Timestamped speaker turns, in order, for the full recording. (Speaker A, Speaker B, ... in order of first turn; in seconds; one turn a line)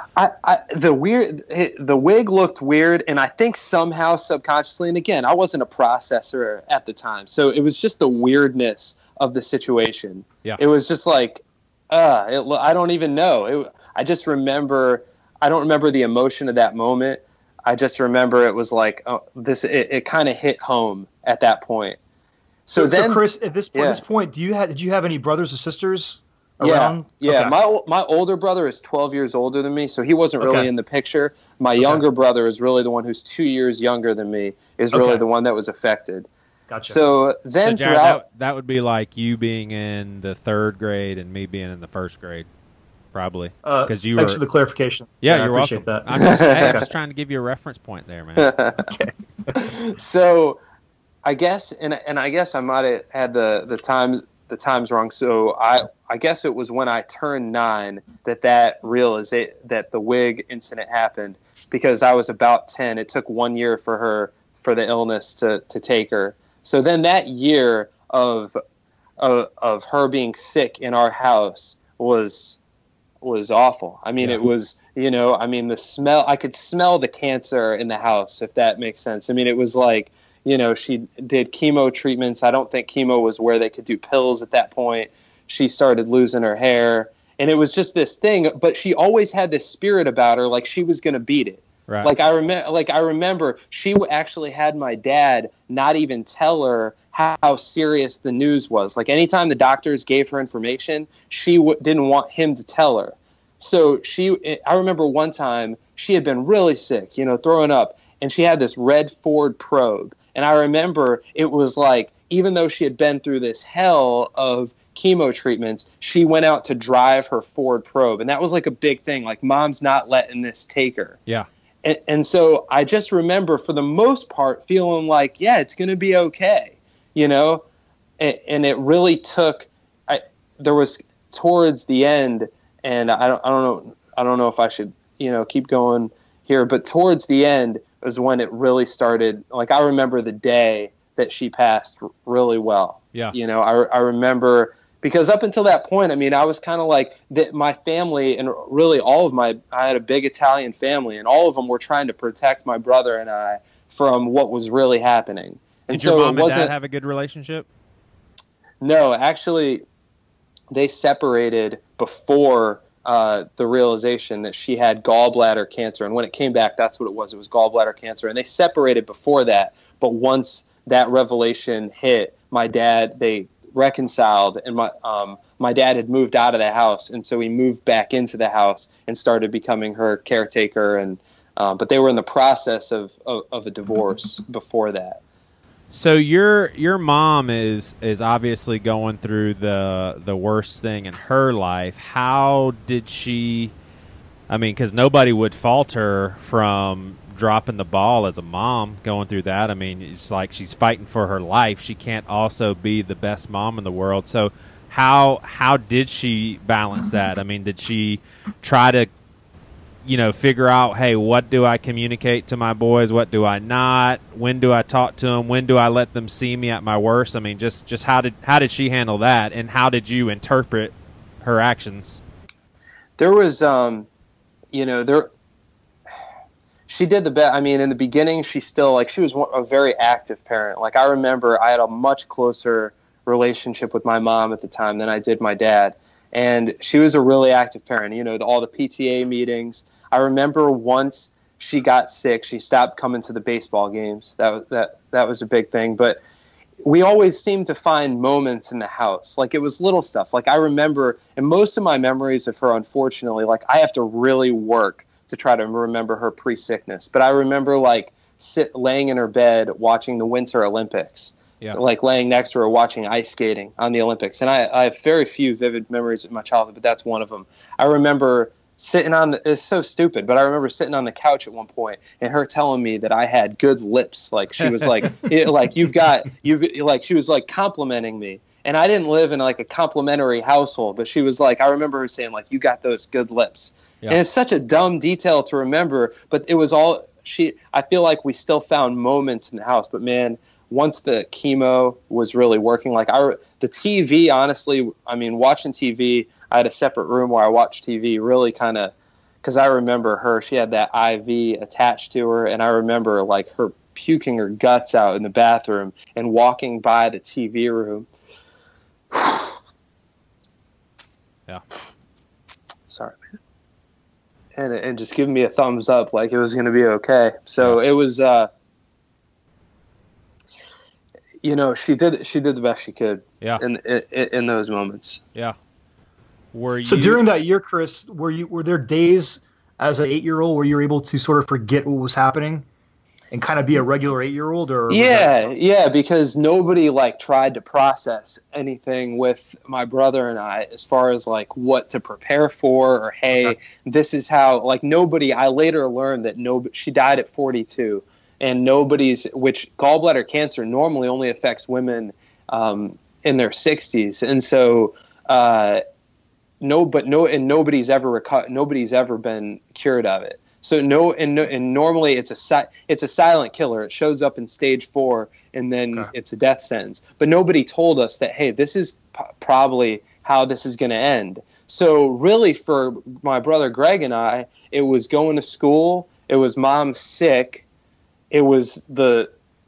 Speaker A: 0.2-22.0
Speaker A: 22.7-23.2
Speaker B: 22.8-27.5
Speaker A: 23.7-24.0
Speaker A: 26.6-36.3
Speaker B: 30.4-30.7
Speaker B: 34.9-35.2
Speaker B: 36.7-37.0
Speaker A: 36.9-38.2
Speaker C: 37.6-42.5
Speaker C: 43.1-44.4
Speaker B: 43.6-46.9
Speaker C: 45.2-48.5
Speaker A: 46.2-46.8
Speaker A: 48.4-48.9
Speaker B: 48.9-49.6
Speaker A: 49.5-50.6
Speaker A: 51.2-68.6
Speaker A: 69.2-72.6
Speaker A: 73.2-121.2
Speaker A: 121.8-127.6
Speaker A: 128.2-156.7
Speaker C: 155.9-157.7
Speaker A: 158.8-159.8
Speaker A: 160.7-185.2
Speaker C: 185.9-193.7
Speaker C: 194.5-209.1
Speaker C: 210.1-222.2
Speaker A: 223.2-224.1
Speaker A: 224.7-225.3
Speaker A: 226.9-246.2
Speaker A: 246.8-308.1
Speaker A: 309.1-309.5
Speaker A: 312.9-313.2
Speaker A: 314.6-318.5
Speaker A: 321.4-325.2
Speaker C: 326.5-327.2
Speaker B: 326.8-332.6
Speaker B: 333.3-335.6
Speaker A: 334.9-355.8
Speaker A: 356.6-377.7
Speaker A: 378.3-379.3